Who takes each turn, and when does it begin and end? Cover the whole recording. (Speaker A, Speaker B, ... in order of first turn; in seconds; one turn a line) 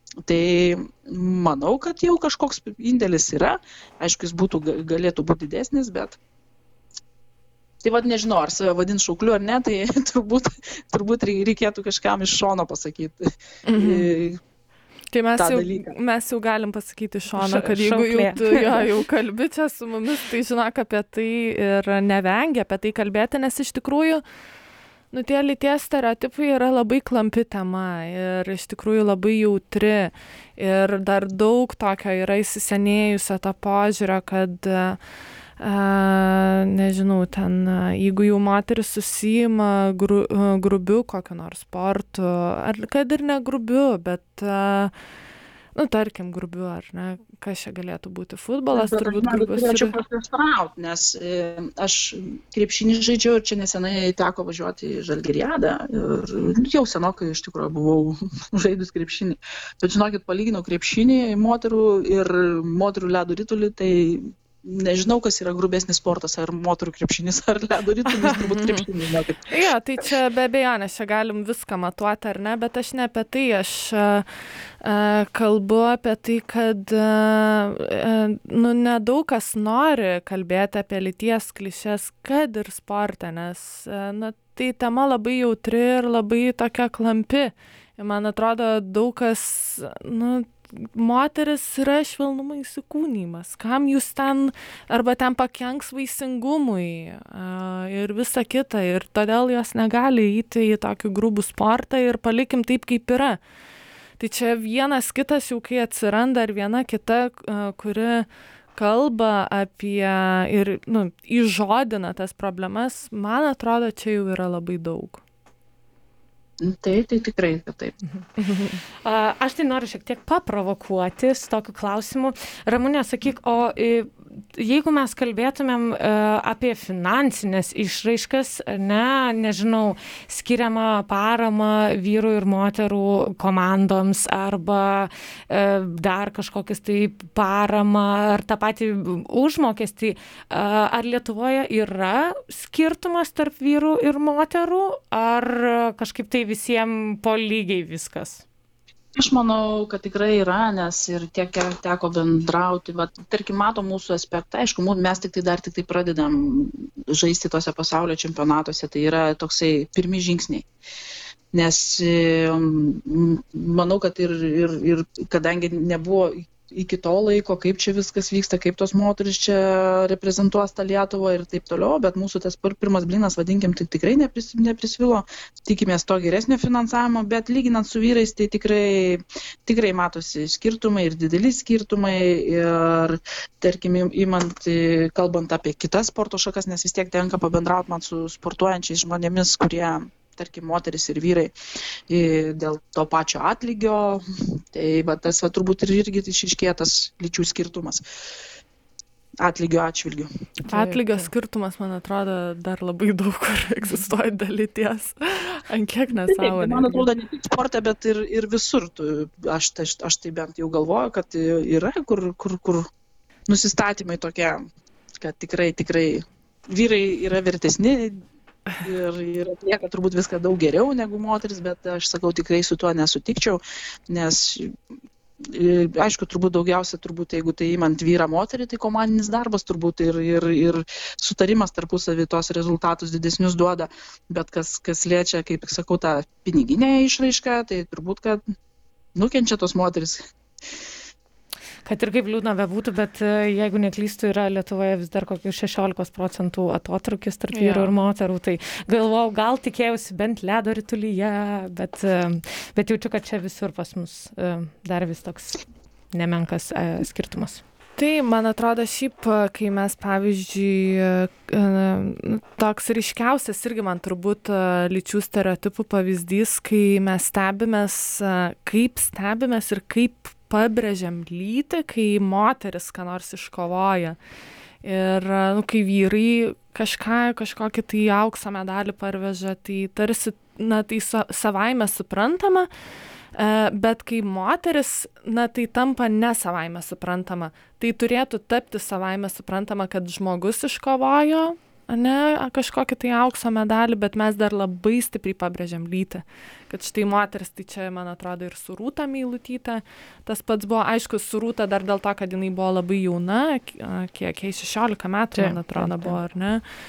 Speaker A: 0.2-6.2
Speaker A: 7.8-13.2
Speaker B: 13.7-14.1
Speaker A: 13.7-14.4
Speaker B: 15.1-24.2
Speaker A: 15.4-15.9
Speaker C: 17.4-18.8
Speaker B: 25.1-35.0
Speaker B: 35.6-44.9
Speaker B: 45.8-50.0
Speaker A: 48.7-69.5
Speaker B: 68.5-68.9
Speaker B: 69.5-103.4
Speaker B: 104.2-115.2
Speaker A: 116.6-118.0
Speaker B: 118.4-118.8
Speaker C: 119.0-148.4
Speaker A: 149.2-160.7
Speaker A: 161.5-191.5
Speaker A: 192.1-198.0
Speaker A: 199.4-200.3
Speaker C: 200.7-201.3
Speaker B: 200.7-207.1
Speaker A: 206.1-212.9
Speaker A: 213.5-214.6
Speaker A: 215.2-218.2
Speaker A: 218.8-224.7
Speaker A: 225.4-238.4
Speaker A: 239.2-240.3
Speaker C: 241.9-255.6
Speaker B: 247.5-247.9
Speaker C: 256.1-257.6
Speaker B: 258.0-274.2
Speaker B: 274.8-282.7
Speaker B: 283.3-306.6
Speaker C: 305.3-306.2